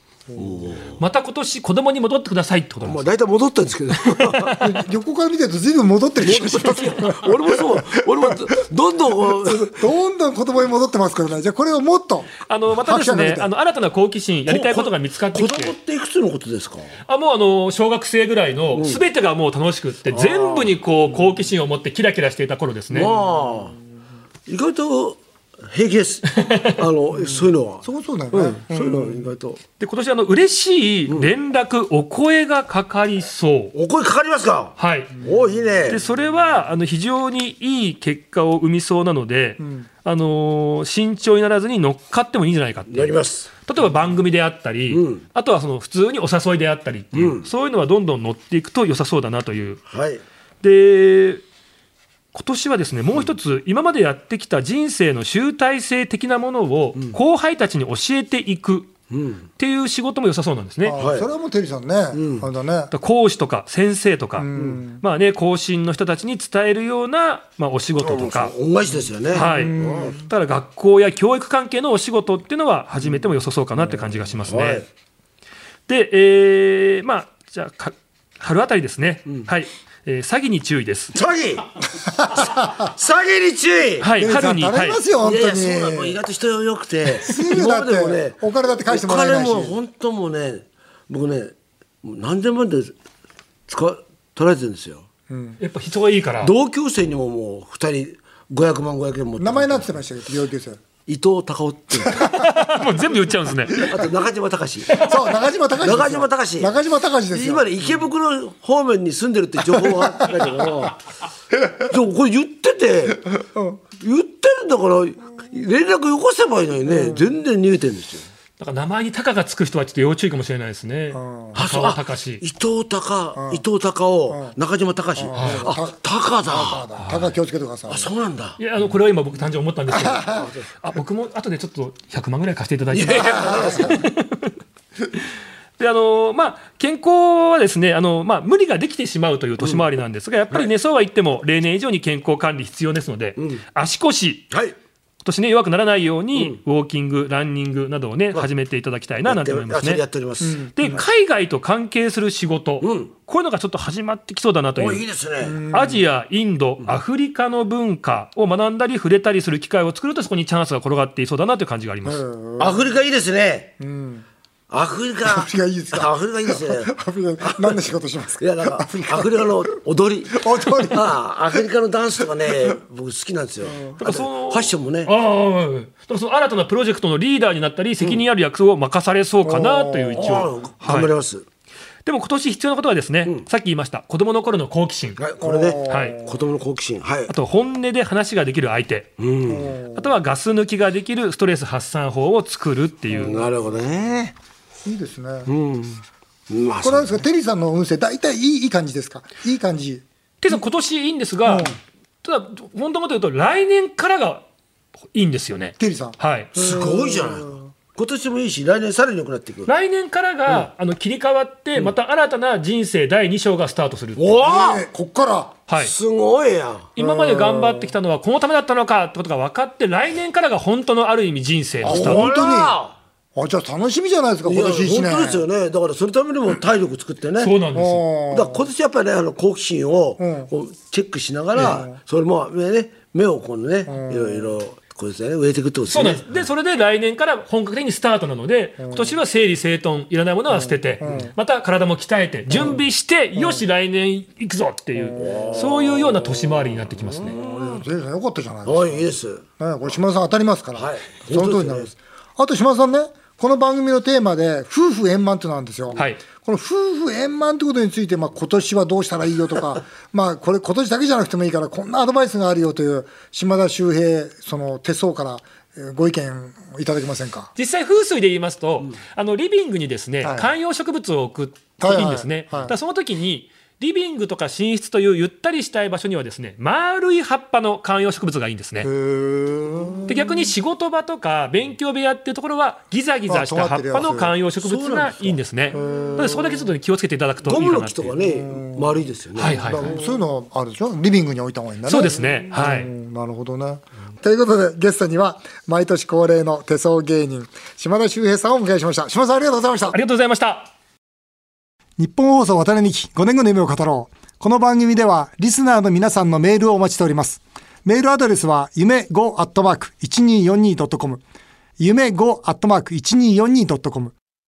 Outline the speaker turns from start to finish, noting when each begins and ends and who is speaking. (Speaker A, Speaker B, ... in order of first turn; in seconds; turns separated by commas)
Speaker A: 0.3-0.9, Speaker B: 1.0-3.1, Speaker A: 2.8-4.6, Speaker B: 4.1-4.7, Speaker C: 4.5-8.4, Speaker A: 6.2-9.8, Speaker C: 9.3-13.5, Speaker B: 12.4-15.7, Speaker A: 14.5-16.9, Speaker B: 17.1-23.1, Speaker A: 18.7-19.0, Speaker A: 20.1-20.8, Speaker A: 22.9-23.7, Speaker A: 24.5-29.6, Speaker B: 26.3-26.8, Speaker C: 27.2-29.2, Speaker B: 29.8-33.7, Speaker A: 31.1-31.3, Speaker A: 33.7-36.0, Speaker B: 34.8-35.2, Speaker B: 35.9-49.8, Speaker C: 39.6-39.9, Speaker A: 42.9-43.5, Speaker A: 44.9-45.2, Speaker A: 47.1-47.5, Speaker A: 49.9-50.2, Speaker B: 50.6-51.4, Speaker B: 52.3-58.9, Speaker A: 59.1-59.5, Speaker B: 59.6-61.0, Speaker C: 60.8-62.9, Speaker A: 60.9-61.3, Speaker A: 62.1-62.5, Speaker B: 62.9-64.5, Speaker C: 64.4-65.0, Speaker B: 65.0-68.5, Speaker A: 68.0-70.2, Speaker B: 69.3-74.8, Speaker C: 69.3-70.3, Speaker A: 74.4-74.8, Speaker B: 75.9-81.1, Speaker A: 81.1-81.7, Speaker C: 82.2-82.8, Speaker A: 82.3-84.1, Speaker B: 84.0-85.0, Speaker C: 84.2-86.2, Speaker A: 85.2-92.9, Speaker C: 87.2-89.8, Speaker A: 93.7-95.0, Speaker C: 95.3-95.6, Speaker B: 95.6-96.5, Speaker A: 96.4-100.0, Speaker C: 99.4-100.8, Speaker A: 101.1-102.3, Speaker B: 102.2-103.9, Speaker A: 103.7-105.1, Speaker C: 104.9-107.7, Speaker A: 105.8-106.8, Speaker A: 107.3-111.0, Speaker A: 111.8-113.4, Speaker C: 113.5-113.8, Speaker A: 114.0-118.3, Speaker C: 116.9-117.3, Speaker B: 118.6-122.4, Speaker C: 121.1-121.6, Speaker A: 121.5-126.8, Speaker C: 123.3-123.6, Speaker C: 124.3-124.5, Speaker C: 125.2-128.1, Speaker B: 125.3-125.7, Speaker B: 127.0-127.3, Speaker A: 127.9-128.6, Speaker B: 128.6-134.5, Speaker C: 129.9-130.4, Speaker A: 130.3-130.7, Speaker A: 132.9-134.0, Speaker B: 135.8-144.5, Speaker A: 143.4-143.6, Speaker B: 145.2-150.0, Speaker A: 149.2-151.0, Speaker C: 150.4-150.9, Speaker B: 150.7-155.0, Speaker A: 152.8-153.1, Speaker A: 154.8-155.6, Speaker C: 155.4-156.0, Speaker B: 155.7-162.2, Speaker C: 162.0-162.9, Speaker A: 162.6-163.7, Speaker C: 163.8-164.2, Speaker A: 164.7-167.8, Speaker C: 165.2-169.4, Speaker A: 168.4-175.1, Speaker C: 170.3-171.1, Speaker C: 173.6-174.0, Speaker B: 174.0-181.1, Speaker C: 179.4-180.4, Speaker A: 180.1-181.4, Speaker B: 182.0-185.2, Speaker A: 185.2-187.3, Speaker C: 185.4-186.4, Speaker B: 185.9-186.1, Speaker B: 187.3-189.2, Speaker A: 189.2-189.7, Speaker C: 189.4-190.1, Speaker B: 189.9-193.4, Speaker A: 193.1-194.3, Speaker C: 194.8-195.5, Speaker A: 195.5-197.2, Speaker C: 196.8-200.0, Speaker B: 200.4-204.4, Speaker C: 201.4-201.8, Speaker B: 205.1-206.5, Speaker C: 205.8-207.7, Speaker A: 206.5-209.7, Speaker B: 209.7-214.3, Speaker A: 214.2-214.8, Speaker C: 214.4-215.6, Speaker B: 215.7-215.9, Speaker A: 215.8-216.9, Speaker B: 216.9-222.2, Speaker C: 217.0-217.9, Speaker A: 221.8-222.9, Speaker C: 221.8-222.8, Speaker C: 223.3-225.4, Speaker A: 224.4-227.5, Speaker B: 227.4-228.0, Speaker C: 227.7-228.6, Speaker A: 228.3-236.3, Speaker C: 230.2-230.5, Speaker C: 231.5-232.0, Speaker C: 233.9-234.6, Speaker B: 235.9-247.3, Speaker C: 238.8-239.1, Speaker C: 240.5-241.3, Speaker C: 242.5-242.8, Speaker C: 243.3-243.6, Speaker A: 245.2-247.8, Speaker C: 247.2-267.5, Speaker A: 248.7-249.4, Speaker A: 250.8-251.9, Speaker B: 267.6-278.9, Speaker C: 270.2-270.5, Speaker C: 271.8-272.7, Speaker C: 278.8-280.3, Speaker B: 280.1-288.1, Speaker C: 283.3-284.3, Speaker A: 284.6-285.8, Speaker C: 285.7-286.6, Speaker A: 287.4-290.2, Speaker C: 288.2-289.0, Speaker B: 289.4-289.9, Speaker C: 289.6-300.0, Speaker B: 291.9-292.9, Speaker B: 299.9-300.7, Speaker C: 302.0-311.2, Speaker C: 311.8-314.1